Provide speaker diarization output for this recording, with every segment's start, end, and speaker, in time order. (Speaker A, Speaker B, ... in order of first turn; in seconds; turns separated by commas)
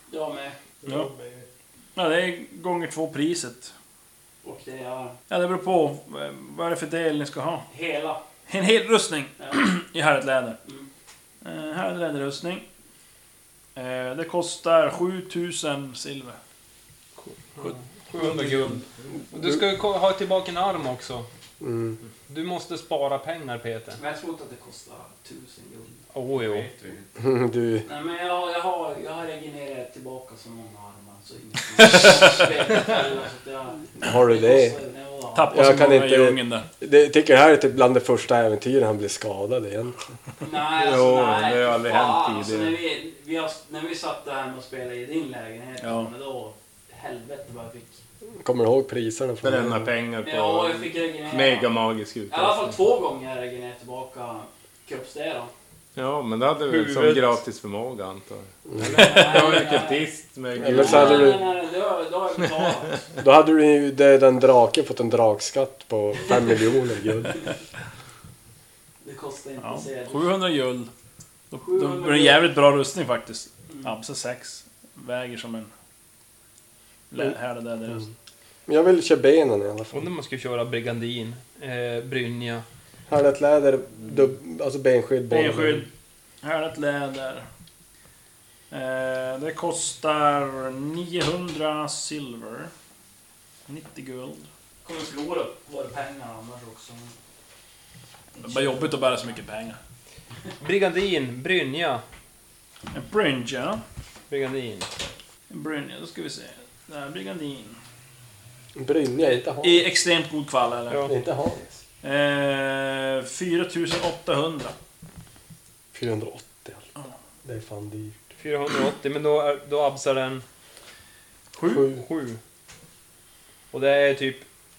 Speaker A: 0.1-0.6, Speaker B: 1.9-3.7, Speaker A: 4.4-5.2, Speaker B: 5.3-7.7, Speaker A: 7.7-8.2, Speaker B: 8.5-10.6, Speaker B: 11.4-12.6, Speaker B: 13.8-16.4, Speaker C: 17.2-21.3, Speaker D: 21.6-22.0, Speaker C: 22.3-24.0, Speaker A: 24.0-26.0, Speaker C: 26.1-26.7, Speaker E: 26.4-27.1, Speaker D: 27.2-27.9, Speaker A: 27.9-35.7, Speaker D: 34.0-34.8, Speaker B: 35.4-36.7, Speaker D: 35.5-40.0, Speaker A: 40.4-48.0, Speaker E: 40.6-42.8, Speaker B: 45.8-46.1, Speaker D: 48.4-49.9, Speaker E: 49.4-52.8, Speaker A: 50.2-51.7, Speaker A: 52.3-55.5, Speaker E: 56.0-61.5, Speaker C: 56.6-57.4, Speaker D: 58.7-59.2, Speaker A: 58.9-60.1, Speaker D: 60.6-61.4, Speaker A: 60.7-63.0, Speaker D: 63.2-67.4, Speaker A: 69.0-70.3, Speaker B: 69.6-70.9, Speaker B: 71.5-75.7, Speaker A: 71.6-72.5, Speaker B: 77.1-78.1, Speaker D: 78.7-80.1, Speaker C: 79.9-82.7, Speaker D: 83.1-85.9, Speaker B: 85.3-85.9, Speaker B: 86.4-87.5, Speaker B: 88.7-92.7, Speaker B: 93.7-94.5, Speaker A: 94.8-97.2, Speaker A: 98.4-98.9, Speaker B: 98.4-99.8, Speaker C: 100.6-102.0, Speaker B: 102.9-103.8, Speaker C: 104.3-104.9, Speaker B: 105.5-107.8, Speaker D: 108.8-109.8, Speaker B: 109.6-111.0, Speaker C: 110.9-111.1, Speaker D: 111.1-111.7, Speaker B: 112.0-114.7, Speaker D: 115.9-116.9, Speaker D: 117.4-118.2, Speaker C: 118.4-120.5, Speaker C: 121.6-122.4, Speaker D: 121.7-122.0, Speaker C: 123.7-124.5